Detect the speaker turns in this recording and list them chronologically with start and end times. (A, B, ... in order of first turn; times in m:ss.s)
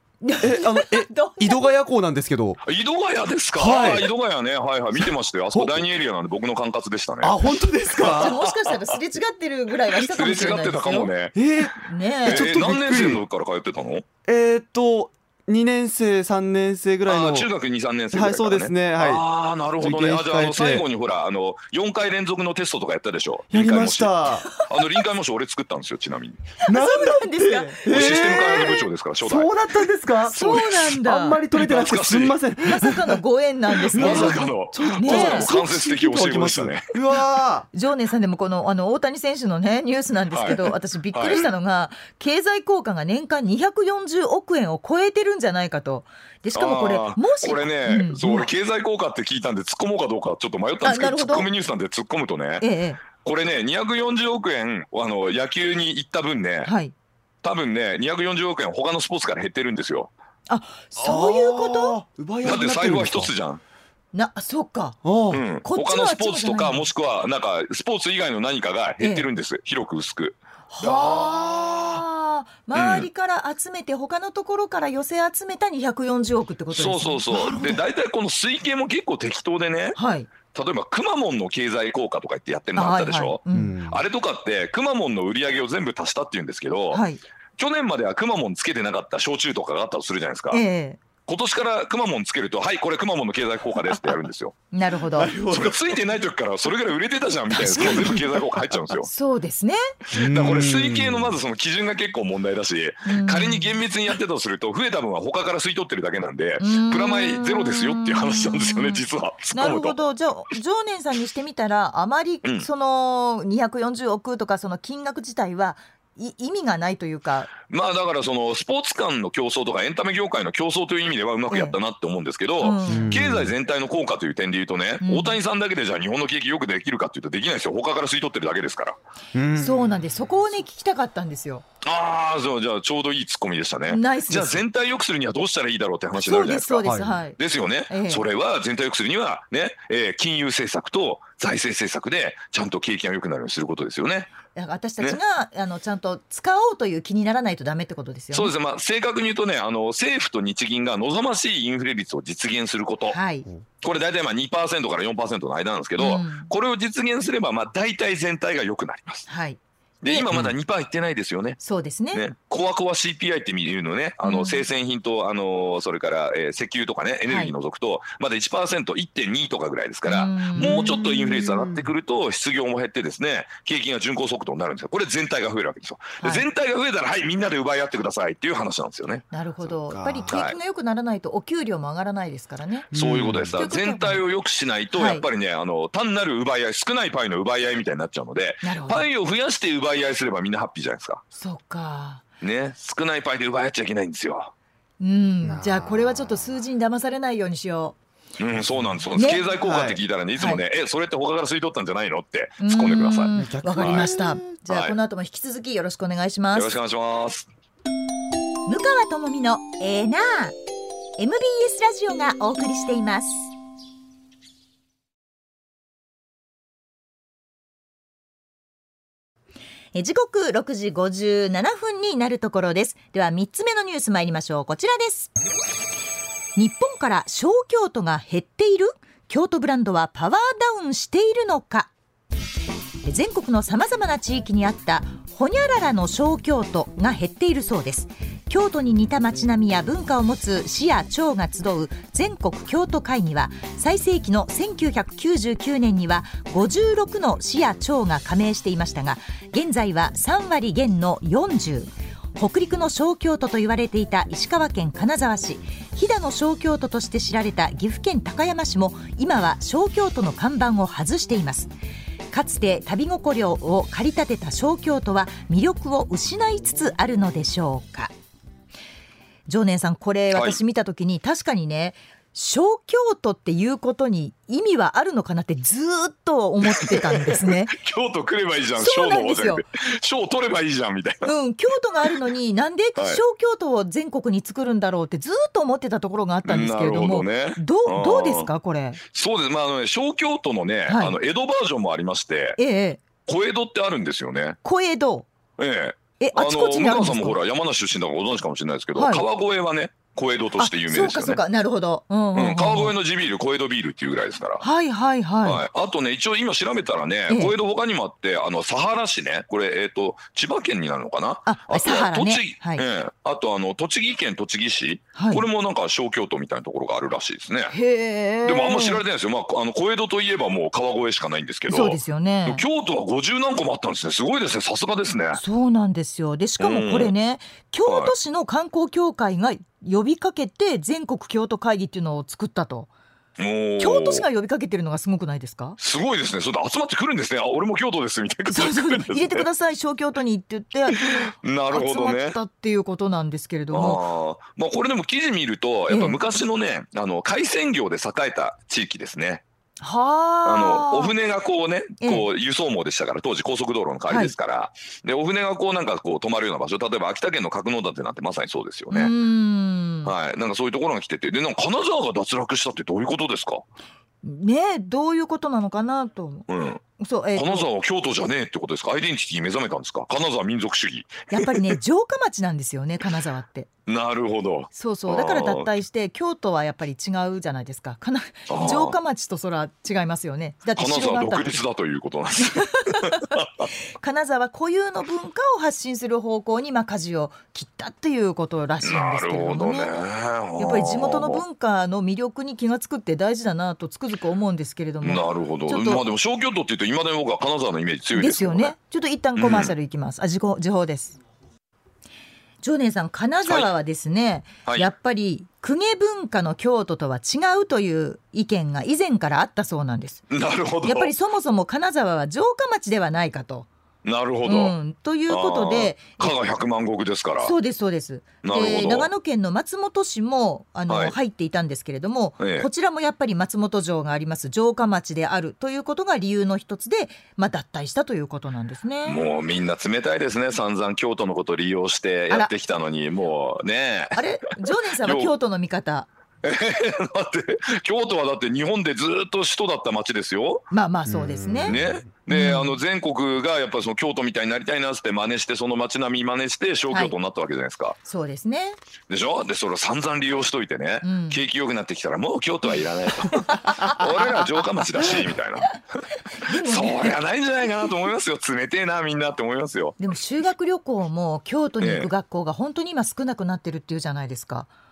0:00.2-0:01.8 A
0:00.4-0:02.6 B
0:02.6-0:07.4 C
0:03.5-0:04.1 B
0:05.0-0:05.9 B
0:07.2-0:08.4 B
0:08.0-0:09.0 C
0:08.0-0:11.1 A
0:09.9-0:11.7 C
0:11.4-0:13.2 B
0:11.8-0:12.6 A
0:12.2-0:14.1 C
0:14.2-0:17.5 B
0:17.1-0:26.4 C
0:18.1-0:19.2 B
0:19.8-0:20.8 B
0:23.5-0:24.5 B
0:26.6-0:28.8 A
0:26.7-0:33.2 B
0:27.9-0:29.5 C
0:30.3-0:31.4 A
0:30.4-0:30.8 C
0:31.5-0:32.4 C
0:32.6-0:35.6 A
0:33.9-0:34.5 B
0:34.0-0:36.9 C
0:35.0-0:37.7 B
0:37.7-0:48.5 A
0:40.3-0:41.5 C
0:46.6-0:56.7 C
0:50.8-0:51.5 A
0:52.6-0:53.0 A
0:56.6-0:56.9 A
0:57.4-1:00.1 C
1:00.5-1:02.0 A
1:01.0-1:03.3 B
1:02.4-1:03.6 C
1:04.1-1:05.0 A
1:05.0-1:05.4 B
1:05.3-1:12.0 C
1:05.6-1:06.9 A
1:09.0-1:09.3 A
1:10.7-1:17.8 A
1:12.8-1:13.1 C
1:16.7-1:20.0 C
1:17.3-1:17.8 B
1:20.0-1:20.3 A
1:20.5-1:27.0 C
1:22.8-1:23.8 A
1:23.5-1:24.0 B
1:26.9-1:27.2 A
1:27.6-1:30.6 C
1:30.5-1:31.0 A
1:31.3-1:34.5 C
1:34.7-1:35.4 A
1:35.1-1:36.0 B
1:35.5-1:39.1 C
1:37.5-1:38.2 A
1:37.8-1:38.2 B
1:39.0-1:39.9 A
1:40.1-1:41.4 B
1:40.1-1:50.0 C
1:43.1-1:43.8 A
1:46.6-1:49.0 A
1:49.5-1:57.5 A
1:57.6-2:09.0 C
2:01.5-2:01.8 A
2:02.6-2:03.2 A
2:02.9-2:03.6 B
2:05.0-2:05.4 A
2:09.3-2:10.1 B
2:09.6-2:11.6 A
2:11.8-2:24.3 C
2:13.9-2:14.6 A
2:16.2-2:17.4 A
2:16.8-2:17.2 B
2:17.9-2:18.2 A
2:24.6-2:28.5 A
2:28.3-2:33.2 C
2:33.1-2:33.5 A
2:33.8-2:39.3 C
2:36.0-2:36.5 A
2:39.3-2:40.3 A
2:40.0-2:41.6 C
2:41.6-2:42.2 A
2:42.1-2:59.3 C
2:44.2-2:44.6 A
2:47.2-2:47.5 A
2:50.0-2:51.0 A
2:50.6-2:51.9 B
2:56.2-2:56.4 A
2:59.3-3:02.9 A
2:59.6-3:00.3 B
3:00.3-3:00.6 C
3:02.9-3:03.6 B
3:02.9-3:11.2 C
3:03.5-3:04.2 A
3:04.9-3:05.2 A
3:08.6-3:09.1 A
3:11.3-3:12.2 A
3:12.4-3:14.5 C
3:15.0-3:18.0 A
3:15.4-3:16.4 B
3:18.4-3:24.1 C
3:19.2-3:19.5 A
3:19.6-3:20.0 B
3:22.6-3:26.7 A
3:23.4-3:24.5 B
3:24.7-3:25.0 C
3:26.6-3:27.5 C
3:28.7-3:30.6 A
3:31.2-3:33.5 A
3:39.9-3:45.3 A
3:46.6-3:51.9 A
3:53.0-4:21.7 A
4:22.3-4:28.1 A
4:29.5-4:37.8 A
4:30.3-4:30.6 C
4:36.7-4:41.3 C
4:38.8-4:39.6 A
4:41.2-4:49.0 A
4:43.0-4:43.2 C
4:46.4-4:48.5 C
4:49.1-4:52.6 C
4:50.9-4:51.2 A
4:52.6-4:53.0 A
4:53.3-4:54.6 C
4:54.6-4:55.3 A
4:55.6-5:01.4 C
4:56.2-4:57.4 A
4:59.0-4:59.2 A
5:00.6-5:03.0 A
5:02.4-5:04.6 C
5:04.6-5:05.6 A
5:05.4-5:17.8 C
5:07.3-5:07.6 A
5:11.4-5:12.8 A
5:15.2-5:15.5 A
5:17.7-5:19.0 A
5:18.4-5:25.4 C
5:21.7-5:22.6 A
5:25.4-5:32.9 A
5:26.6-5:27.1 C
5:27.9-5:28.1 C
5:33.4-5:34.2 C
5:33.8-5:35.8 A
5:35.8-5:39.5 C
5:38.5-5:44.0 A
5:40.9-5:42.4 C
5:43.7-5:49.4 C
5:45.9-5:46.2 A
5:49.8-5:51.1 A
5:50.4-5:59.1 C
5:52.0-5:52.3 A
5:54.1-5:54.3 A
5:58.9-6:00.1 A
6:00.0-6:03.6 C
6:04.2-6:06.5 A
6:06.5-6:06.8 C
6:07.0-6:07.7 A
6:07.4-6:11.7 C
6:11.3-6:13.7 A
6:13.9-6:15.7 C
6:14.7-6:21.6 A
6:18.5-6:19.0 C
6:20.8-6:23.7 C
6:22.4-6:23.4 A
6:24.0-6:29.9 A
6:28.8-6:31.4 C
6:30.6-6:36.0 A
6:35.0-6:38.7 C
6:38.1-6:41.2 A
6:39.4-6:39.7 C
6:42.6-6:50.2 A
6:50.3-6:51.1 C
6:50.8-6:53.7 A
6:54.0-6:54.8 C
6:54.4-6:56.4 A
6:55.3-6:57.6 C
6:57.4-7:09.3 A
6:58.4-6:59.1 C
7:00.9-7:01.2 C
7:02.4-7:02.7 C
7:09.0-7:15.3 C
7:14.2-7:16.1 A
7:16.4-7:20.7 C
7:20.7-7:22.8 A
7:21.1-7:22.1 B
7:21.7-7:28.0 C
7:26.9-7:27.2 A
7:28.0-7:28.8 A
7:29.1-7:35.8 C
7:31.0-7:31.4 A
7:33.3-7:34.0 A
7:36.3-7:37.2 A
7:36.5-7:40.0 C
7:40.0-7:44.7 A
7:41.8-7:42.1 C